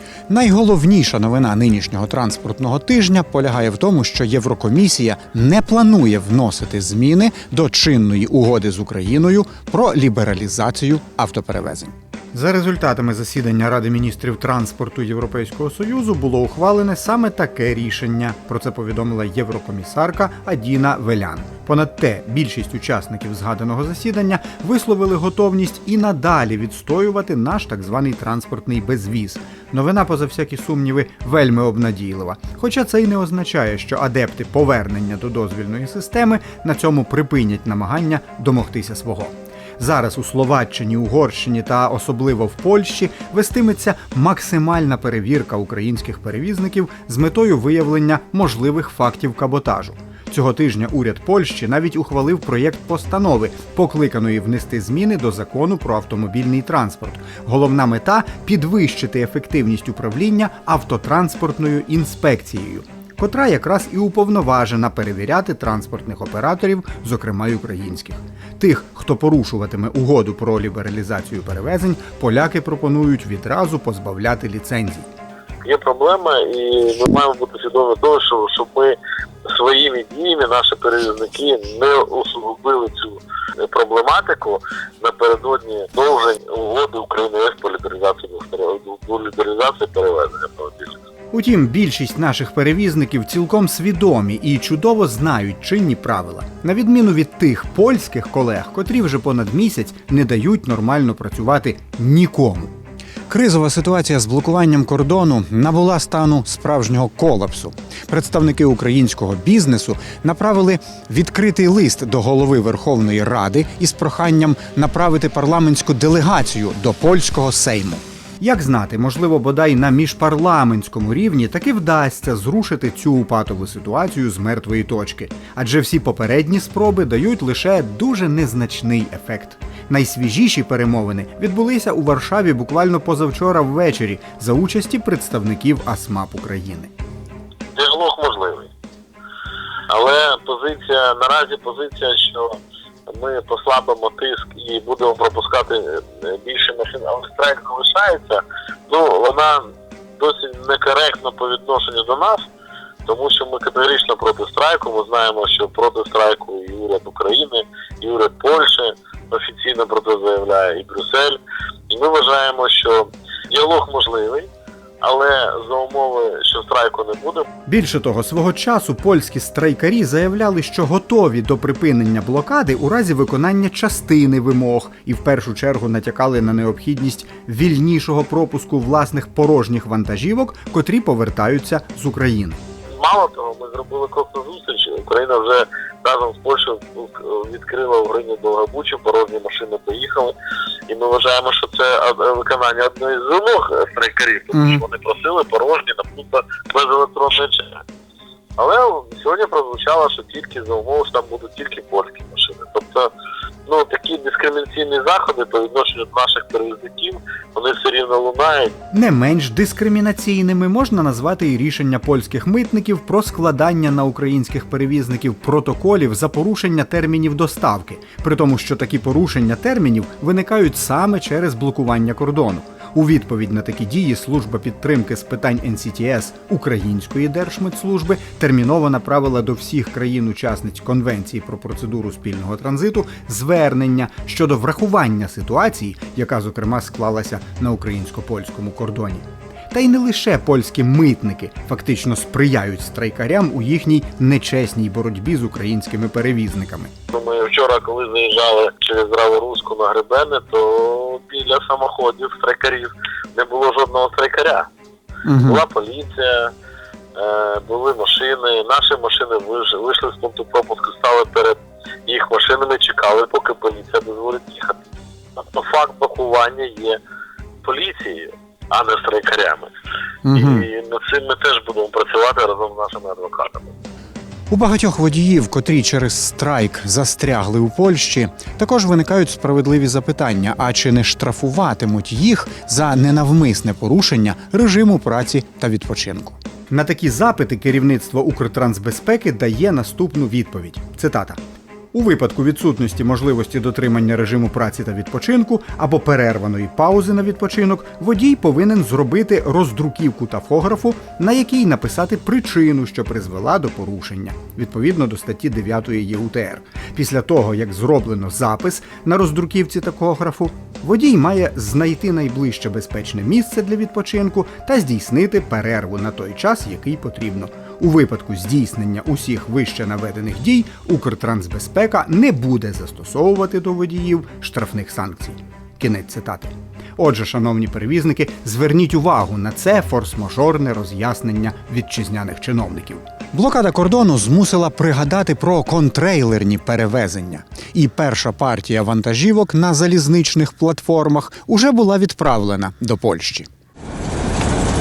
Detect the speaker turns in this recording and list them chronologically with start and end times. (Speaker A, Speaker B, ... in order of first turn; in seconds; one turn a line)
Speaker A: 0.3-75.1
Speaker B: 75.6-79.0
Speaker B: 79.5-91.0
Speaker A: 91.3-102.7
Speaker A: 103.3-136.9
Speaker B: 137.7-138.7
Speaker B: 139.9-149.7
Speaker B: 150.2-152.5
Speaker B: 153.1-164.5
Speaker B: 165.0-167.5
Speaker A: 167.7-182.6
Speaker B: 183.0-190.3
Speaker B: 190.9-197.8
Speaker A: 194.5-194.8
Speaker B: 198.6-203.1
Speaker B: 203.7-208.7
Speaker A: 208.9-246.9
Speaker B: 247.1-254.7
Speaker A: 255.2-255.6
Speaker B: 255.4-256.5
Speaker B: 257.1-264.8
Speaker B: 265.4-267.0
Speaker B: 267.6-269.7
Speaker A: 270.2-270.7
Speaker B: 270.3-273.7
Speaker A: 274.5-291.4
Speaker A: 291.9-343.5